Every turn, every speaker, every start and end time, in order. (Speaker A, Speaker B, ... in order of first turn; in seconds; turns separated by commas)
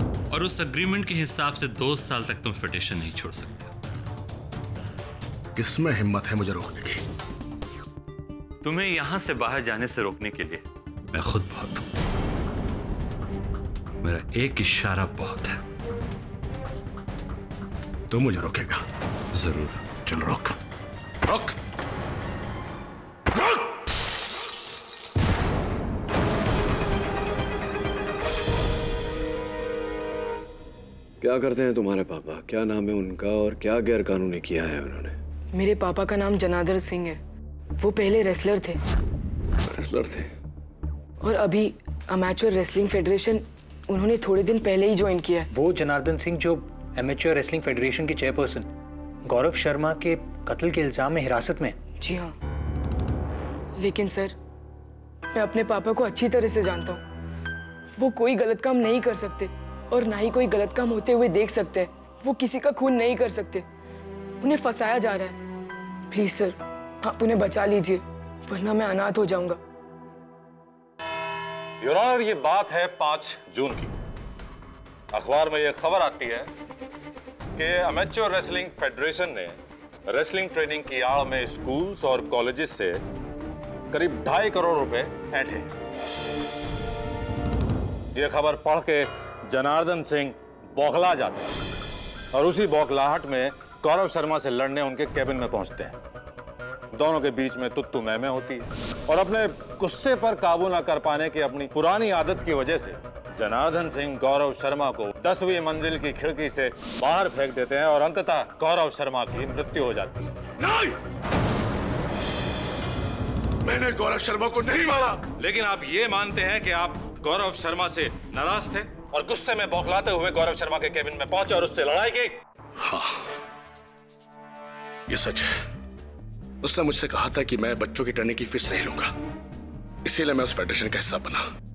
Speaker A: 0.3-3.7, Speaker B: 5.5-7.0, Speaker A: 8.6-11.8, Speaker A: 14.0-15.6, Speaker B: 18.1-18.8, Speaker A: 19.3-19.8, Speaker B: 20.0-20.6, Speaker B: 21.2-21.6, Speaker B: 23.3-23.6, Speaker C: 31.2-35.2, Speaker D: 35.5-37.2, Speaker D: 37.8-38.8, Speaker C: 39.6-40.3, Speaker D: 41.2-45.5, Speaker E: 45.5-48.7, Speaker E: 49.2-51.8, Speaker D: 52.0-52.3, Speaker D: 53.8-54.4, Speaker D: 55.3-57.0, Speaker D: 58.0-63.6, Speaker D: 64.4-65.4, Speaker D: 66.1-69.6, Speaker F: 71.8-73.9, Speaker F: 75.1-76.5, Speaker F: 77.5-83.0, Speaker F: 83.9-85.7, Speaker F: 88.1-91.5, Speaker F: 92.3-95.9, Speaker F: 96.9-110.3, Speaker B: 110.6-111.0, Speaker B: 113.6-115.2, Speaker F: 115.4-122.4, Speaker B: 122.8-123.3, Speaker B: 125.1-125.6, Speaker B: 126.6-129.1, Speaker B: 130.0-131.4